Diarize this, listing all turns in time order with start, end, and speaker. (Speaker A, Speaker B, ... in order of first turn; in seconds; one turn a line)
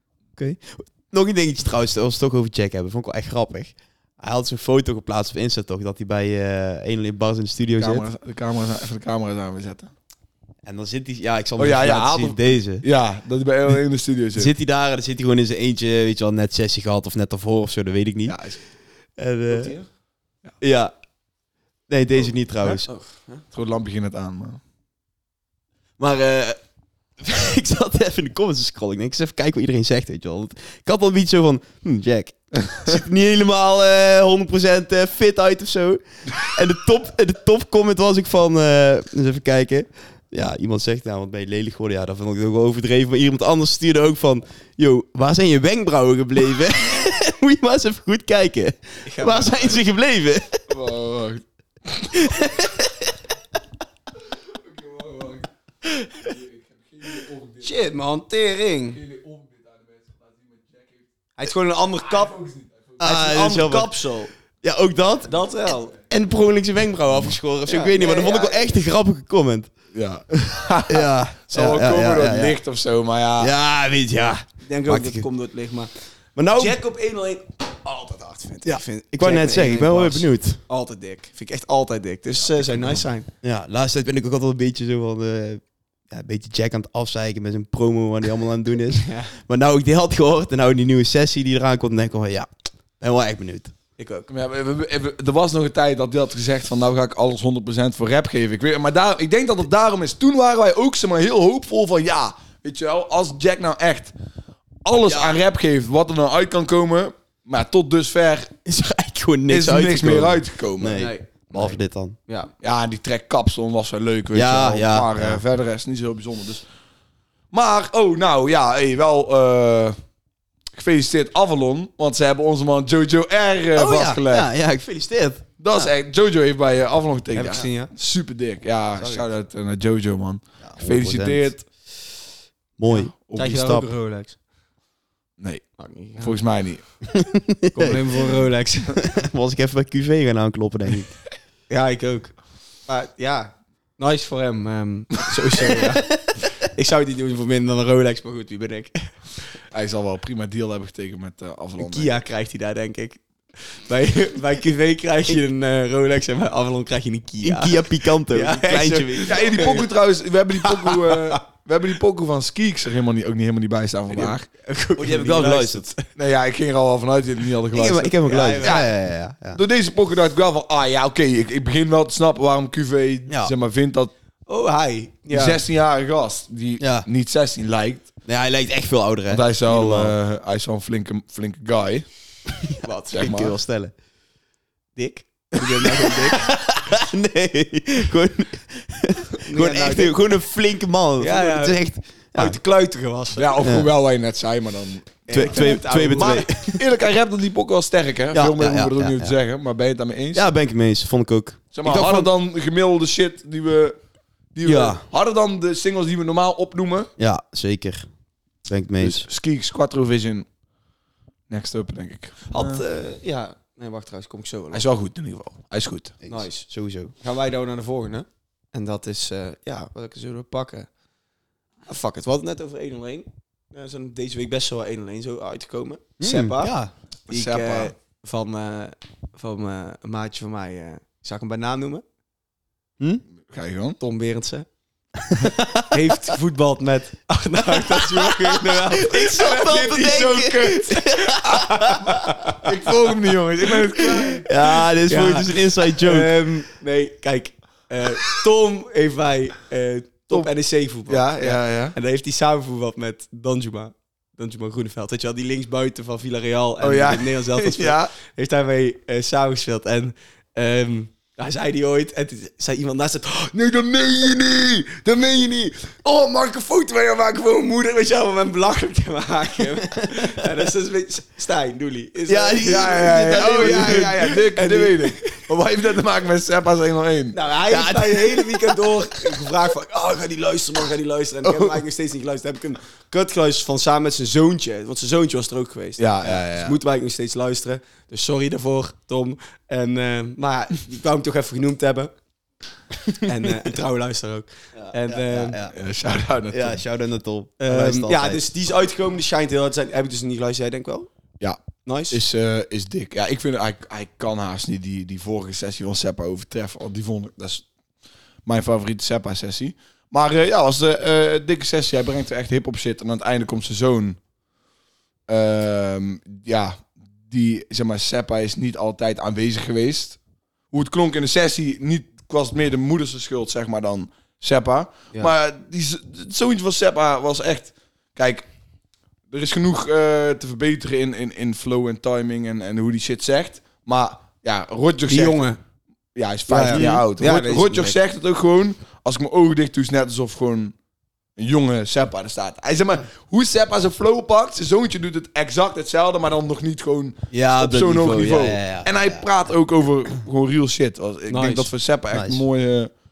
Speaker A: 0.4-8.1
Speaker B: 7.8-9.9
Speaker A: 10.6-12.8
Speaker B: 11.6-14.5
Speaker A: 14.3-18.4
Speaker B: 18.3-18.6
Speaker A: 19.2-19.8
Speaker C: 19.5-19.9
Speaker A: 20.6-20.9
Speaker A: 21.9-22.9
Speaker C: 22.9-23.4
Speaker B: 23.5-24.6
Speaker A: 26.0-26.6
Speaker A: 27.2-50.6
Speaker C: 49.0-49.8
Speaker B: 50.7-51.4
Speaker A: 52.1-53.1
Speaker B: 54.5-55.5
Speaker B: 56.1-57.7
Speaker C: 57.6-59.0
Speaker B: 58.9-61.0
Speaker C: 61.4-62.4
Speaker B: 62.1-63.0
Speaker A: 63.0-63.9
Speaker C: 63.0-64.3
Speaker A: 64.6-65.4
Speaker C: 65.3-66.0
Speaker A: 66.1-69.7
Speaker C: 67.7-68.7
Speaker B: 69.9-73.5
Speaker A: 70.9-72.6
Speaker A: 73.4-75.3
Speaker C: 74.6-75.9
Speaker A: 76.4-76.8
Speaker C: 76.5-83.3
Speaker A: 78.7-80.6
Speaker B: 82.7-83.0
Speaker A: 83.4-93.7
Speaker C: 89.0-89.3
Speaker C: 94.0-94.3
Speaker B: 94.3-104.1
Speaker B: 104.8-108.6
Speaker A: 108.7-112.2
Speaker B: 109.5-111.1
Speaker C: 111.0-112.5
Speaker B: 112.6-116.6
Speaker A: 114.3-115.4
Speaker B: 117.5-120.0
Speaker B: 120.7-124.5
Speaker A: 123.8-125.9
Speaker B: 125.6-131.7
Speaker C: 127.3-127.9
Speaker A: 128.9-129.3
Speaker A: 130.6-131.5
Speaker A: 132.8-133.9
Speaker B: 133.1-133.6
Speaker C: 133.3-134.4
Speaker B: 135.4-136.9
Speaker C: 135.8-136.4
Speaker A: 137.1-138.0
Speaker C: 137.7-139.0
Speaker A: 139.0-141.2
Speaker C: 141.7-149.2
Speaker B: 149.7-152.1
Speaker C: 151.8-159.9
Speaker A: 157.4-159.6
Speaker B: 159.3-164.5
Speaker C: 160.7-161.4
Speaker C: 164.1-166.1
Speaker A: 165.0-165.9
Speaker B: 166.2-168.9
Speaker A: 167.7-169.6
Speaker C: 168.2-168.8
Speaker B: 169.5-174.1
Speaker C: 174.5-175.6
Speaker B: 175.3-178.1
Speaker A: 176.8-177.1
Speaker A: 178.3-180.1
Speaker B: 179.3-182.1
Speaker C: 182.8-183.4
Speaker B: 183.1-183.6
Speaker A: 183.1-183.9
Speaker C: 185.0-186.4
Speaker A: 185.8-192.6
Speaker C: 189.4-190.3
Speaker C: 191.2-191.8
Speaker C: 192.3-193.6
Speaker B: 193.3-200.5
Speaker A: 193.6-193.9
Speaker C: 195.3-196.5
Speaker A: 195.3-196.8
Speaker A: 198.3-199.3
Speaker A: 200.3-202.3
Speaker B: 201.7-204.0
Speaker B: 204.5-207.1
Speaker A: 204.6-205.0
Speaker A: 207.2-208.1
Speaker A: 208.7-209.3
Speaker B: 209.0-210.5
Speaker B: 211.5-212.8
Speaker C: 212.5-214.8
Speaker B: 214.7-216.2
Speaker A: 216.2-217.1
Speaker C: 216.3-216.7
Speaker C: 217.2-220.9
Speaker C: 221.9-226.8
Speaker A: 226.2-226.9
Speaker B: 227.3-227.9
Speaker C: 227.3-232.0
Speaker A: 233.0-233.2
Speaker B: 233.5-234.0
Speaker C: 234.0-234.7
Speaker A: 235.2-236.0
Speaker C: 235.9-242.6
Speaker A: 237.8-242.3
Speaker B: 242.5-244.5
Speaker A: 244.2-246.3
Speaker C: 245.1-275.4
Speaker B: 251.1-251.9
Speaker B: 256.8-258.1
Speaker A: 272.3-274.4
Speaker B: 272.6-277.4
Speaker C: 277.3-292.1
Speaker A: 277.7-278.4
Speaker B: 286.0-286.8
Speaker C: 293.2-295.6
Speaker A: 294.8-295.8
Speaker B: 295.7-296.8
Speaker A: 296.5-298.4
Speaker C: 297.6-301.1
Speaker C: 301.8-302.2
Speaker B: 302.1-307.7
Speaker B: 308.5-314.2
Speaker B: 315.3-320.2
Speaker B: 320.7-328.5
Speaker B: 329.3-335.4
Speaker C: 335.1-335.6
Speaker B: 336.1-340.7
Speaker C: 336.5-338.0
Speaker A: 336.7-337.0
Speaker B: 341.4-352.9
Speaker A: 347.3-349.2
Speaker C: 351.3-351.7
Speaker A: 352.1-352.4